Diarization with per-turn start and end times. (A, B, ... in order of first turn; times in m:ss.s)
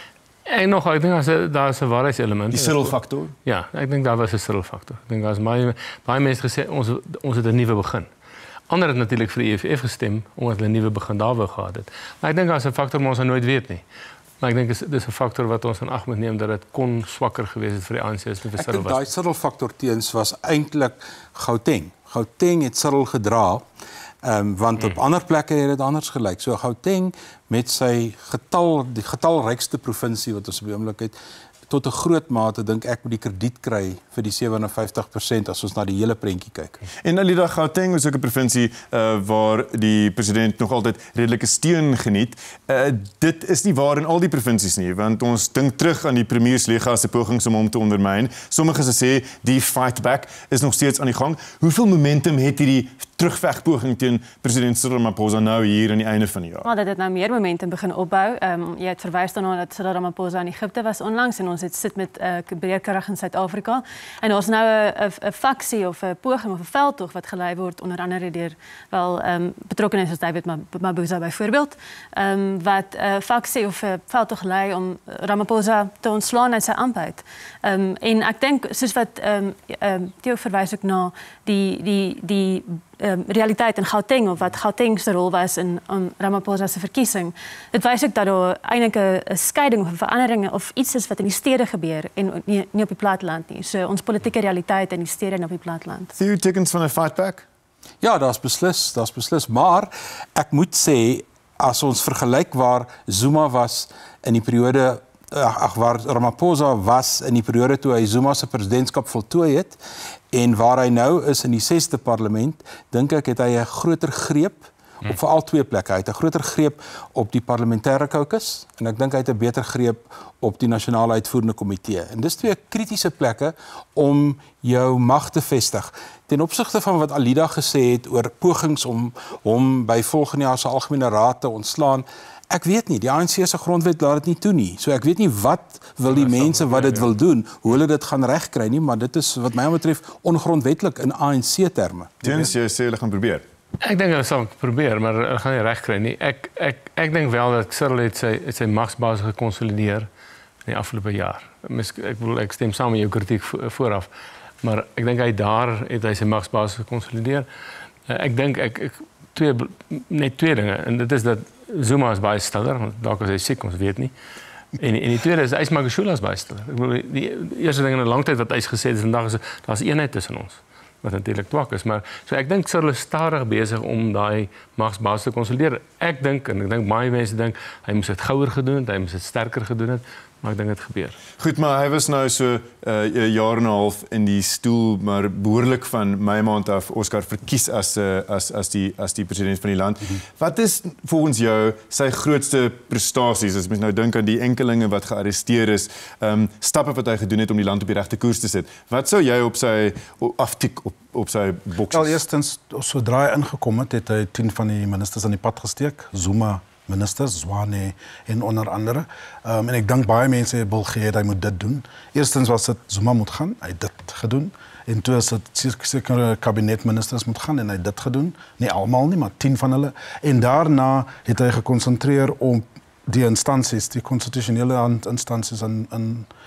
0:00.5-0:02.9 A
0:02.5-0:03.3 B
0:03.4-0:08.1 A
0:08.7-0:13.8 A
0:14.4-0:19.0 A
0:18.5-0:23.6 C
0:24.2-0:31.1 C
0:31.7-0:36.8 C
0:37.0-0:56.6 B
0:56.6-1:36.1 D
1:36.2-1:37.4 B
1:38.0-1:49.8 C
1:50.3-2:22.5 C
2:16.2-2:17.0 A
2:22.2-2:23.4 B
2:23.8-2:30.1 A
2:30.6-2:34.1 A
2:34.6-2:37.5 A
2:38.1-2:44.1 A
2:44.8-3:01.2 A
3:01.4-3:22.2 B
3:21.9-3:46.3 E